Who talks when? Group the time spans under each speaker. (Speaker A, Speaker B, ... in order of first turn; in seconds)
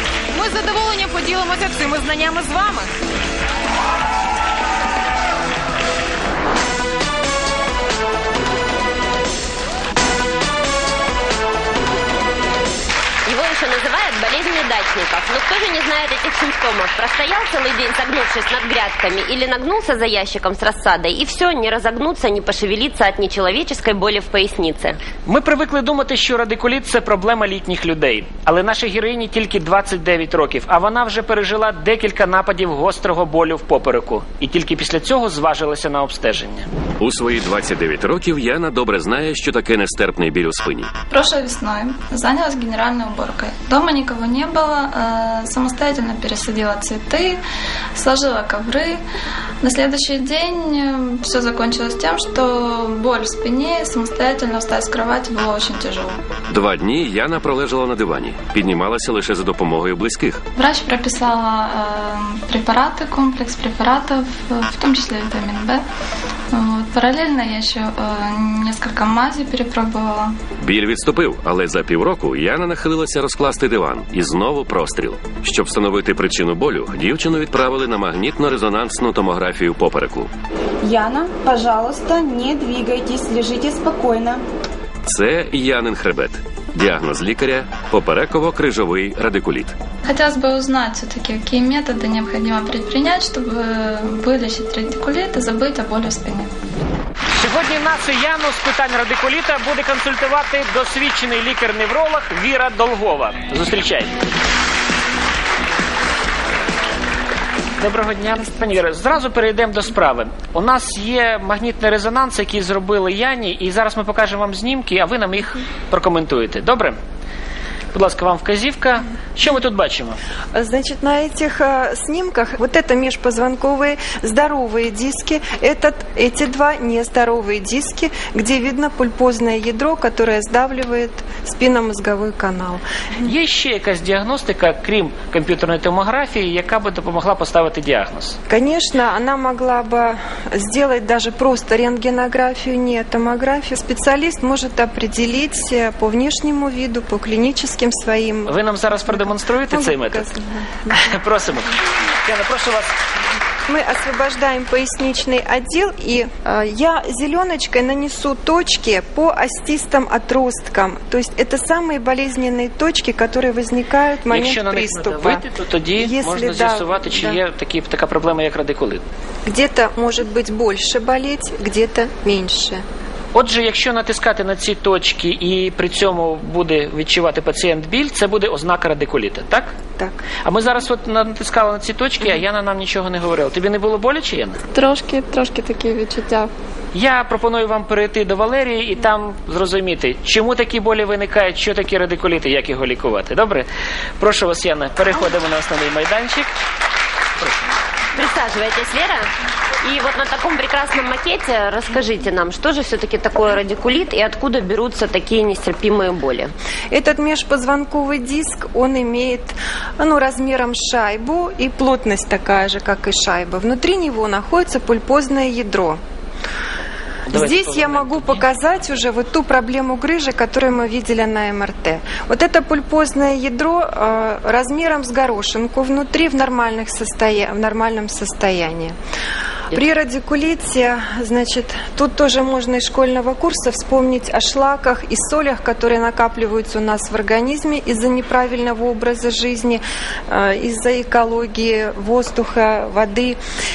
Speaker A: 0.3-2.9
Speaker B: 13.2-25.0, 198.1-199.3, 199.8-206.5
Speaker C: 25.2-36.7, 97.3-104.2, 107.8-117.0, 117.9-120.2, 133.2-138.3, 148.4-150.3, 150.9-152.9, 164.3-169.0, 173.3-179.7, 180.4-184.6, 186.9-193.7, 194.2-196.5, 217.3-218.4
Speaker D: 37.0-40.9, 56.5-60.4, 70.6-80.3, 85.0-89.8
Speaker E: 41.1-47.4, 47.9-49.0, 49.6-56.2, 60.5-65.8, 66.5-70.3, 90.0-96.5, 184.7-186.5
Speaker F: 80.8-84.4
Speaker G: 120.5-133.3, 138.5-151.1, 153.7-165.4, 166.0-167.4, 169.4-172.8, 180.0-180.2, 206.9-216.0, 217.3-228.9, 229.7-243.4